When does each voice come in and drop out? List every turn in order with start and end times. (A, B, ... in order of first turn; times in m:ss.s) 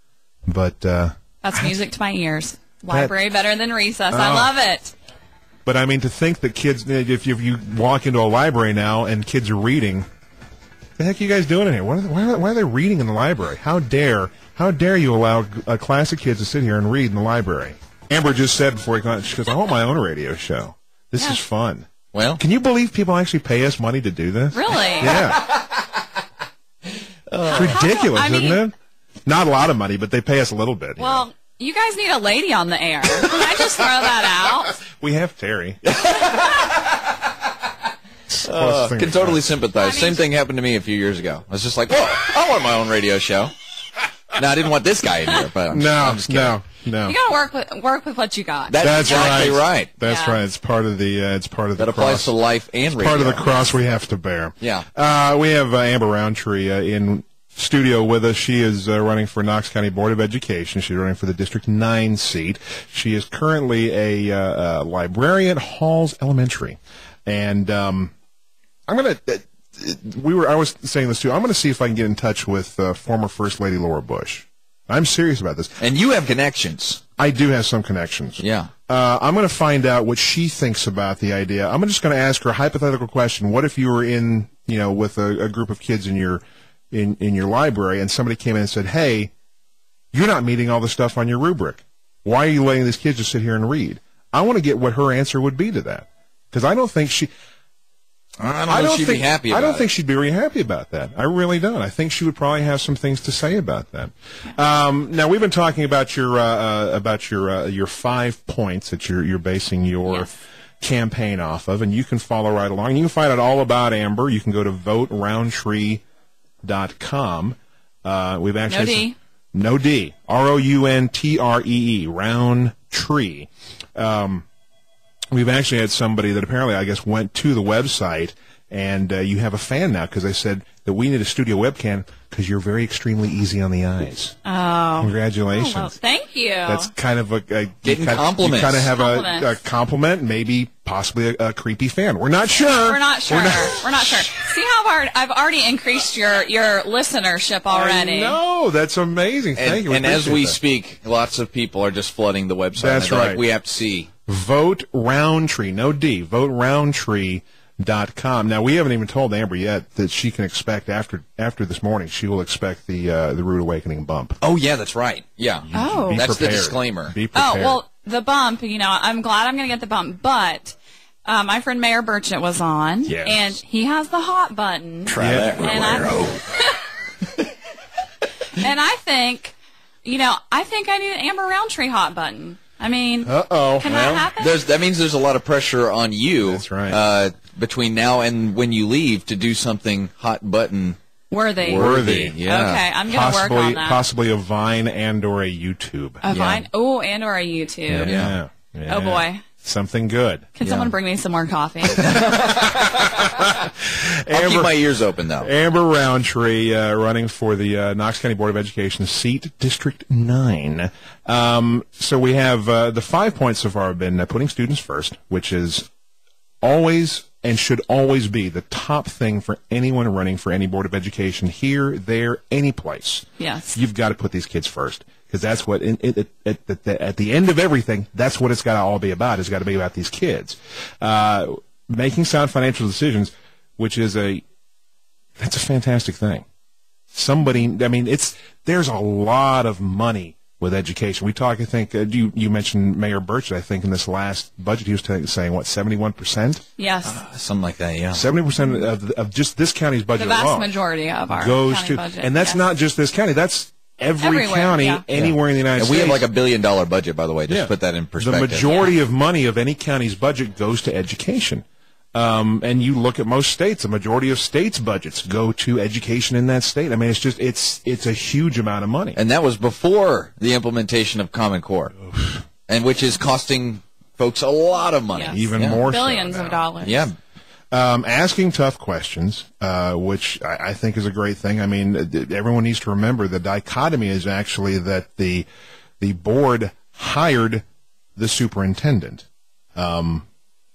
0:00.5-0:01.7 A
0:01.4-0:04.9 B
0:02.9-0:03.1 A
0:04.1-0:04.5 A
0:05.6-0:10.0 A
0:11.0-0:25.5 A
0:22.1-0:22.4 C
0:24.5-0:25.3 B
0:25.0-0:25.6 C
0:27.3-0:27.8 C
0:27.5-0:28.6 B
0:27.5-0:28.7 A
0:29.3-0:31.2 A
0:31.0-0:34.8 B
0:34.9-0:35.8 A
0:35.8-0:37.1 C
0:38.3-0:39.5 A
0:38.4-0:43.5 C
0:39.7-0:40.2 B
0:44.3-0:46.6 C
0:45.7-0:47.2 A
0:47.0-0:49.4 B
0:48.7-0:49.9 C
0:48.8-0:52.3 A
0:50.0-0:50.4 B
0:51.8-0:53.7 C
0:52.9-1:08.1 A
0:54.6-0:54.9 C
1:08.9-1:15.8 A
1:15.8-1:17.0 C
1:17.2-1:29.3 A
1:18.4-1:18.7 C
1:30.1-1:37.3 A
1:38.4-1:39.9 C
1:38.7-1:56.0 A
1:50.1-1:50.4 B
1:56.6-2:04.5 A
1:58.7-1:59.2 B
2:05.3-2:14.4 A
2:14.4-2:16.9 B
2:15.0-2:16.0 A
2:16.7-2:24.4 A
2:17.8-2:18.9 C
2:19.0-2:19.6 B
2:22.7-2:28.4 B
2:27.7-2:30.6 A
2:29.6-2:34.1 C
2:32.8-2:33.4 A
2:34.3-2:44.4 A
2:44.4-2:47.2 C
2:45.6-2:47.8 A
2:45.7-2:46.3 B
2:47.3-2:56.8 B
2:53.1-2:53.6 A
2:55.1-2:56.4 C
2:55.2-2:55.7 A
2:58.5-3:04.6 B
3:03.2-3:04.1 A
3:03.8-3:11.0 C
3:06.4-3:07.0 A
3:11.3-3:14.0 B
3:11.6-3:12.8 C
3:11.8-3:12.4 A
3:13.1-3:16.7 A
3:16.2-3:18.2 B
3:17.9-3:20.9 A
3:18.0-3:18.4 C
3:18.9-3:19.4 B
3:20.6-3:22.2 B
3:22.0-3:23.5 C
3:22.0-3:24.8 A
3:24.3-3:25.5 C
3:25.4-3:35.9 A
3:36.6-3:54.4 A
3:43.4-3:43.8 B
3:55.4-3:56.4 A
3:57.1-4:06.6 A
4:06.8-4:07.2 B
4:07.0-4:08.3 C
4:08.1-4:10.7 A
4:08.6-4:08.9 B
4:10.2-4:12.7 B
4:11.3-4:16.3 A
4:14.2-4:15.0 B
4:15.1-4:18.9 C
4:17.5-4:29.2 A
4:29.2-4:32.0 C
4:32.7-4:35.8 C
4:35.1-4:37.1 B
4:35.3-4:36.6 A
4:36.8-4:37.2 C
4:37.7-4:45.5 A
4:46.0-4:47.6 A
4:48.2-4:50.3 A